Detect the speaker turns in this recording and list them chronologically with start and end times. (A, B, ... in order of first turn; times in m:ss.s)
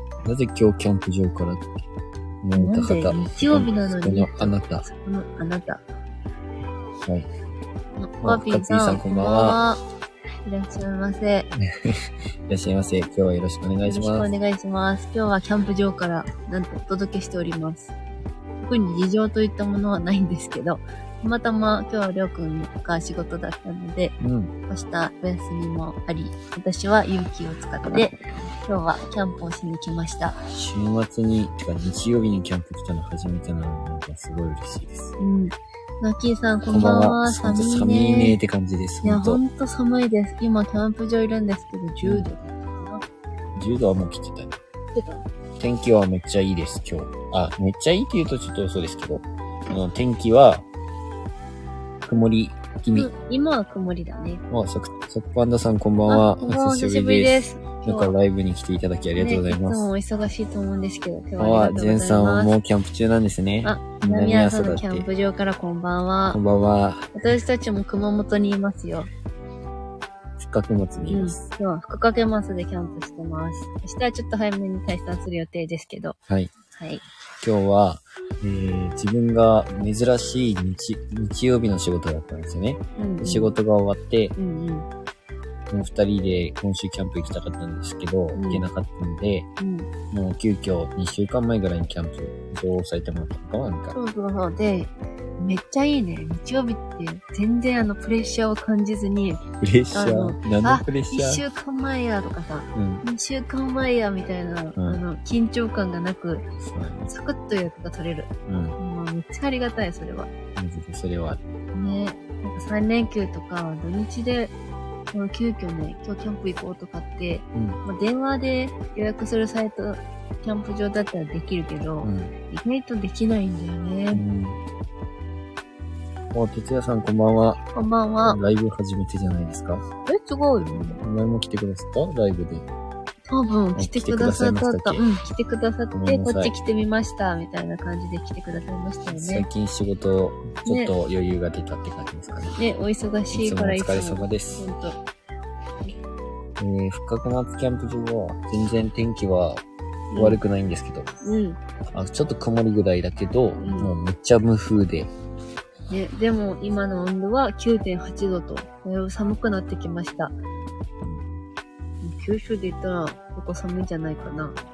0:00.2-0:01.8 A
0:02.4-0:04.9 A
0:02.6-0:05.8 B
0:08.0-0:09.8 B
0:08.2-0:09.6 A
0:10.4-0:11.5 B
0:11.6-0:14.3 A
0:13.8-0:17.9 B
0:18.6-0:24.1 B
0:24.2-0:24.5 A
0:24.7-0:30.4 B
0:30.5-0:35.1 A
0:35.2-0:38.4 B
0:36.7-0:39.4 A
0:39.0-0:43.0 B
0:42.0-0:42.3 A
0:43.6-0:44.6 A
0:44.9-0:45.2 B
0:45.6-0:50.7 A
0:52.0-0:53.1 A
0:52.9-0:54.4 B
0:54.5-0:59.9 A
0:56.1-0:58.1 B
0:59.2-1:02.5 B
1:01.4-1:05.0 A
1:03.6-1:06.4 B
1:06.3-1:07.2 A
1:07.1-1:09.1 B
1:10.4-1:11.4 A
1:11.1-1:16.2 B
1:16.7-1:17.0 B
1:17.4-1:24.4 A
1:23.0-1:23.5 B
1:24.4-1:24.9 B
1:25.7-1:29.5 A
1:28.3-1:28.6 B
1:29.6-1:29.9 B
1:30.1-1:34.0 A
1:33.9-1:39.4 B
1:39.6-1:41.4 A
1:39.9-1:46.5 B
1:42.7-1:43.0 A
1:44.8-1:45.0 A
1:46.6-1:47.1 A
1:47.1-1:50.3 B
1:48.5-1:48.8 A
1:50.6-1:51.4 A
1:51.7-1:54.5 B
1:55.1-2:04.2 B
1:57.5-1:57.8 A
2:02.0-2:02.3 A
2:04.1-2:04.6 A
2:06.3-2:07.6 A
2:07.6-2:08.4 B
2:08.2-2:09.8 A
2:10.0-2:11.0 B
2:10.9-2:12.7 A
2:13.3-2:19.4 B
2:13.7-2:15.0 A
2:15.9-2:16.5 A
2:19.1-2:22.6 A
2:20.6-2:20.9 B
2:22.6-2:25.0 B
2:23.3-2:24.6 A
2:26.6-2:29.6 A
2:30.1-2:30.4 B
2:30.1-2:31.1 A
2:31.2-2:31.6 B
2:31.9-2:35.1 A
2:33.6-2:33.9 B
2:35.9-2:40.3 B
2:41.0-2:41.3 A
2:42.0-2:44.6 B